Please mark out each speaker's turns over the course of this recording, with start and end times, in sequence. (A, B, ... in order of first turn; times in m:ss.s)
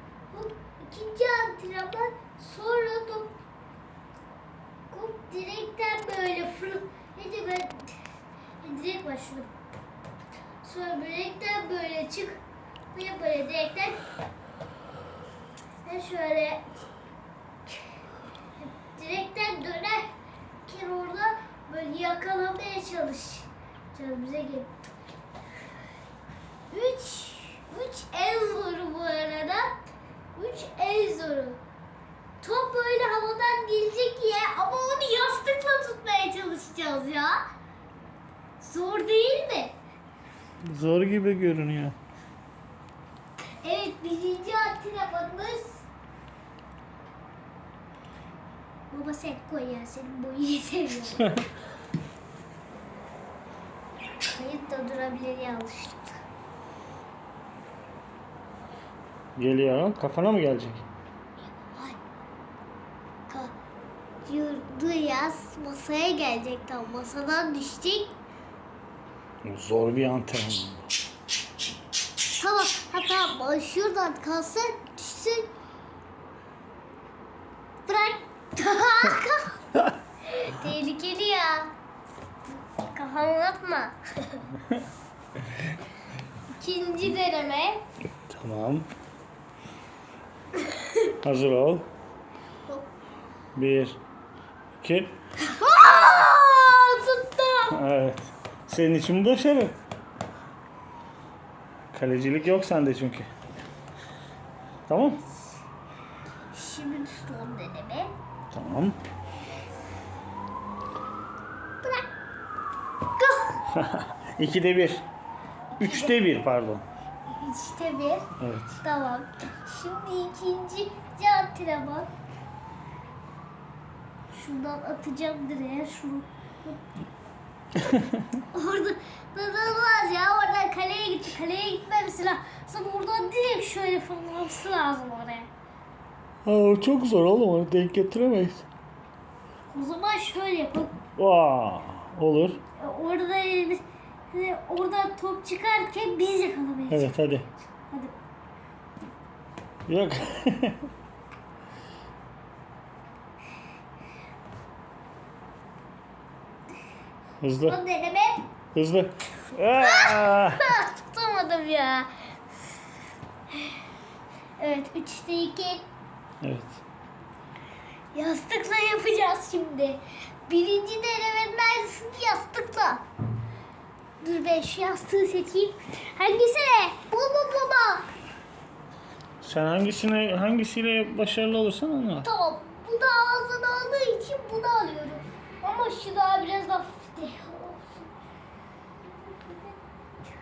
0:00.3-0:03.3 A
0:04.9-0:08.0 A
0:08.6-0:09.5 A
0:10.6-0:12.4 A
0:12.9-0:14.0 A
0:15.8-0:16.7 A
0:18.6-0:20.1 A
0:20.6-0:24.7 A
0:26.7-0:29.8 A
0:30.4-0:31.6 A
0:32.4-0:37.4 A
0:38.6-0:39.7 A
0:40.6-0:42.0 B
0:43.6-0:45.8 A
0:48.9-0:51.3 A
0:54.2-0:56.2 A
0:59.4-1:00.8 B
1:01.5-1:02.0 A
1:03.3-1:03.5 A
1:04.2-1:08.1 A
1:09.4-1:10.9 B
1:12.4-1:15.5 A
1:17.8-1:19.6 A
1:20.2-1:21.7 A
1:22.9-1:24.4 A
1:26.6-1:27.8 A
1:28.3-1:28.9 B
1:31.2-1:31.9 B
1:33.5-1:34.0 B
1:34.8-1:35.2 B
1:35.4-1:37.8 A
1:37.7-1:39.8 B
1:41.9-1:43.3 B
1:44.9-1:45.2 B
1:46.5-1:48.1 A
1:48.5-1:49.0 B
1:53.2-1:53.6 A
1:53.7-1:55.0 B
1:55.7-1:56.2 A
1:55.8-1:56.8 B
1:57.3-1:58.3 A
1:58.4-1:58.7 B
1:58.8-2:02.1 A
2:04.3-2:06.8 A
2:07.8-2:08.2 B
2:08.5-2:15.5 A
2:16.4-2:18.6 B
2:19.7-2:21.0 A
2:21.2-2:22.6 B
2:22.8-2:27.2 A
2:26.9-2:27.5 B
2:27.8-2:28.1 A
2:29.9-2:30.9 B
2:37.4-2:37.8 B
2:37.6-2:38.5 A
2:38.7-2:40.7 B
2:39.7-2:42.1 A
2:43.5-2:43.8 A
2:44.6-2:45.9 A
2:46.4-2:46.8 B
2:48.1-2:53.0 A
2:54.2-2:58.1 A
2:59.4-3:02.3 B
3:02.2-3:08.1 A
3:09.0-3:09.8 A